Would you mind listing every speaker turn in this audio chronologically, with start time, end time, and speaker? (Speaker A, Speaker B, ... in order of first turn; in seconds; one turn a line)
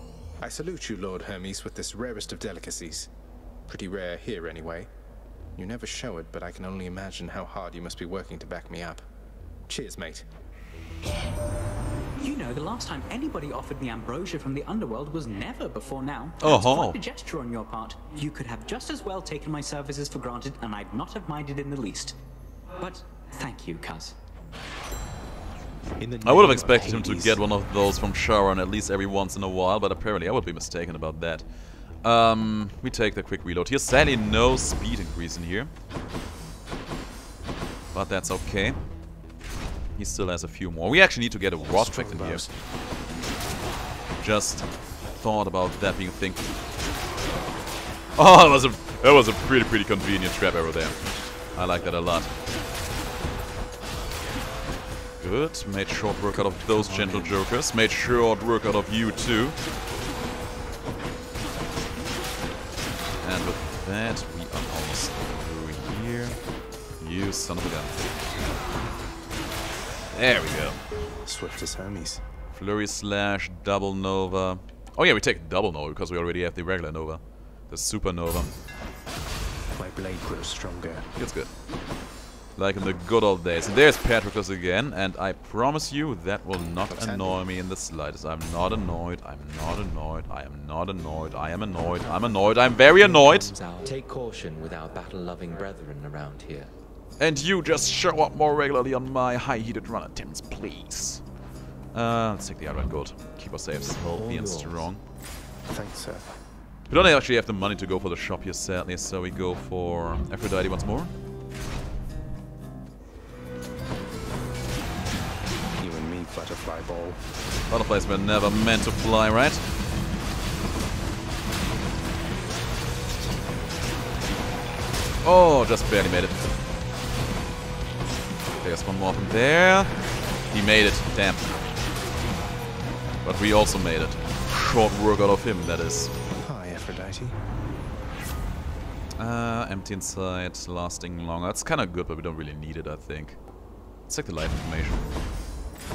Speaker A: 0.4-3.1
Speaker A: 3.7-4.9
Speaker A: 5.5-9.1
Speaker A: 9.7-10.2
Speaker B: 12.2-22.2
Speaker C: 16.4-17.0
Speaker B: 22.8-24.2
Speaker A: 26.0-27.4
Speaker C: 26.2-31.4
Speaker C: 32.0-35.7
Speaker C: 37.9-38.8
Speaker C: 40.0-42.4
Speaker A: 41.6-42.5
Speaker C: 44.2-46.5
Speaker C: 48.1-52.3
Speaker C: 55.2-59.6
Speaker A: 56.3-57.5
Speaker C: 63.2-66.4
Speaker C: 67.0-67.9
Speaker C: 70.1-70.8
Speaker A: 71.2-72.2
Speaker C: 72.5-78.5
Speaker A: 79.7-81.1
Speaker C: 81.2-81.5
Speaker C: 82.5-93.5
Speaker A: 86.9-87.4
Speaker D: 92.8-96.7
Speaker C: 97.2-101.2
Speaker C: 101.9-105.0
Speaker D: 104.0-104.8
Speaker A: 105.7-106.3
Speaker C: 106.9-111.1
Speaker A: 115.8-117.2
Speaker C: 117.7-119.6
Speaker C: 125.2-126.5
Speaker C: 128.6-131.5
Speaker C: 133.2-136.1
Speaker A: 136.4-137.4
Speaker C: 139.2-143.4
Speaker C: 144.0-145.1